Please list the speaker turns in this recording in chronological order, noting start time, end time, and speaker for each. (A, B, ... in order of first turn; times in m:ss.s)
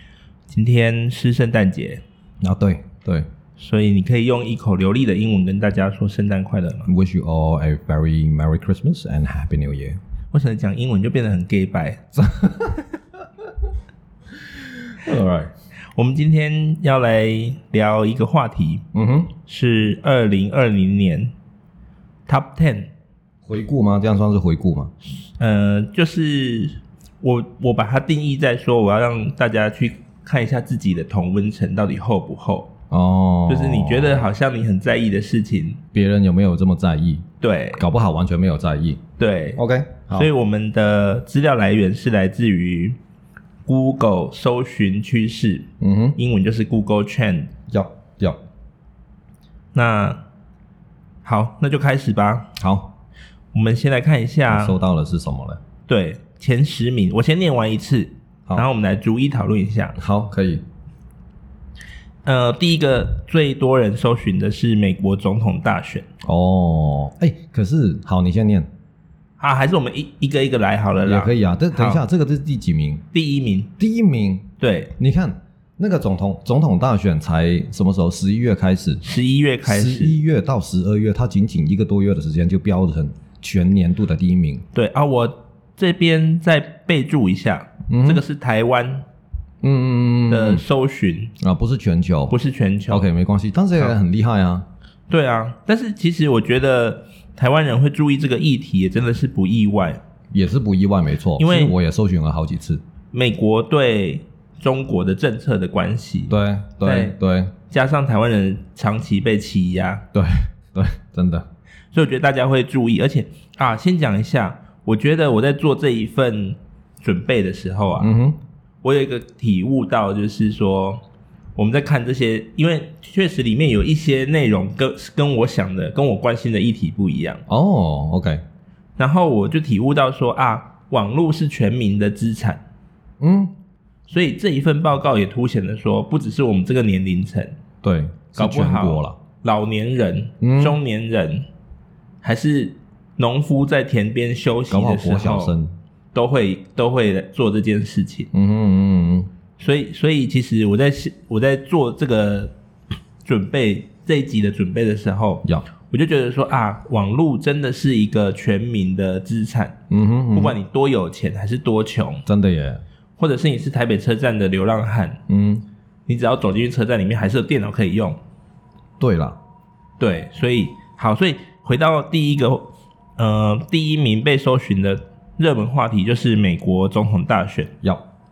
0:00.5-0:02.0 A
0:02.4-0:03.3 B
0:03.6-0:06.9 A
0:06.9-0:10.0 B
0:10.3-0:12.0 A
0:12.2-0:12.9 B
0:14.3-0:15.5 B
0:15.9-0:18.8 A
0:18.9-0:19.3 B
0:19.4-0:21.3 A
0:22.3-0:22.9 A
0:23.5-0:24.9 B
0:25.3-0:32.7 A
0:32.9-0:34.3 B
0:33.5-0:35.8 A
0:35.9-0:39.0 B
0:37.4-0:37.8 A
0:39.2-0:39.6 A
0:39.6-0:40.3 B
0:40.1-0:43.0 A
0:43.7-0:47.5 A
0:45.8-0:46.2 B
0:47.7-0:48.4 B
0:49.7-0:50.2 A
0:51.2-0:52.5 A
0:52.6-0:52.9 B
0:53.5-0:54.8 A
0:54.5-0:55.6 B
0:55.9-1:00.0 A
1:00.0-1:00.6 B
1:02.2-1:06.1 A
1:06.2-1:08.7 B
1:09.4-1:12.0 A
1:11.0-1:13.0 B
1:13.1-1:13.7 A
1:13.8-1:19.0 B
1:14.6-1:14.9 A
1:19.0-1:20.2 A
1:19.6-1:24.6 B
1:24.7-1:29.0 A
1:27.9-1:28.2 B
1:29.6-1:30.6 B
1:30.3-1:31.3 A
1:31.4-1:32.3 B
1:32.3-1:33.1 A
1:32.9-1:34.7 B
1:35.1-1:40.0 A
1:40.3-1:42.8 B
1:41.4-1:41.8 A
1:43.1-1:47.2 A
1:46.3-1:47.5 B
1:47.7-1:50.0 A
1:50.1-1:51.5 B
1:51.9-1:58.1 A
1:58.0-1:58.4 B
1:58.8-2:01.0 A
2:01.6-2:07.4 A
2:07.5-2:08.4 B
2:09.0-2:12.6 A
2:13.2-2:13.5 B
2:14.1-2:17.6 A
2:17.8-2:19.2 B
2:18.3-2:21.5 A
2:20.4-2:20.8 B
2:22.2-2:25.5 A
2:24.7-2:25.7 B
2:26.1-2:28.3 A
2:28.3-2:29.3 B
2:29.6-2:32.5 A
2:33.2-2:39.8 A
2:39.9-2:40.6 B
2:40.3-2:42.2 A
2:42.3-2:42.8 B
2:43.2-2:45.2 A
2:45.3-2:45.6 B
2:46.1-2:48.2 A
2:49.0-2:49.4 B
2:50.0-2:52.7 A
2:53.2-2:57.7 A